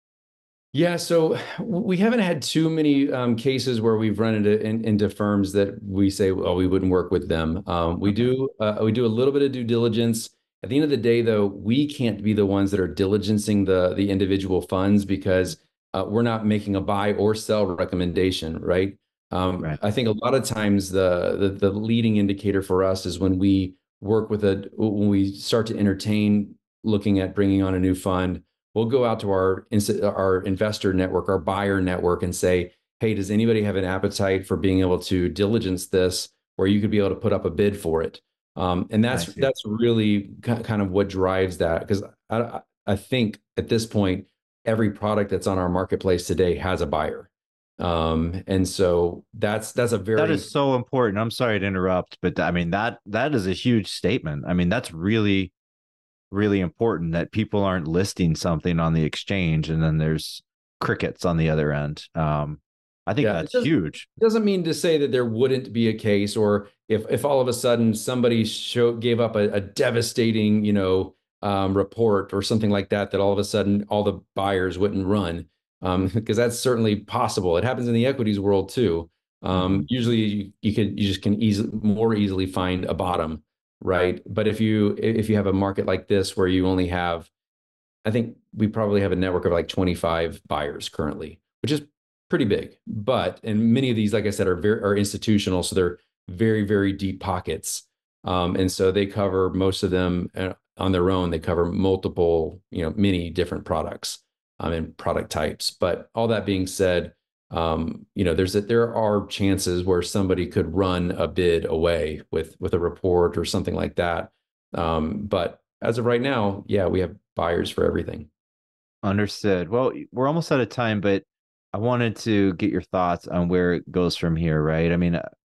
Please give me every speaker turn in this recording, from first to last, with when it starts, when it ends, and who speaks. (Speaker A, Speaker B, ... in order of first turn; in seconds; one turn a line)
Speaker A: 0.7-50.5
Speaker B: 39.1-39.5
Speaker B: 50.1-55.5
Speaker B: 56.3-64.0
Speaker A: 63.2-87.3
Speaker B: 79.5-79.8
Speaker A: 88.0-118.3
Speaker B: 119.0-125.2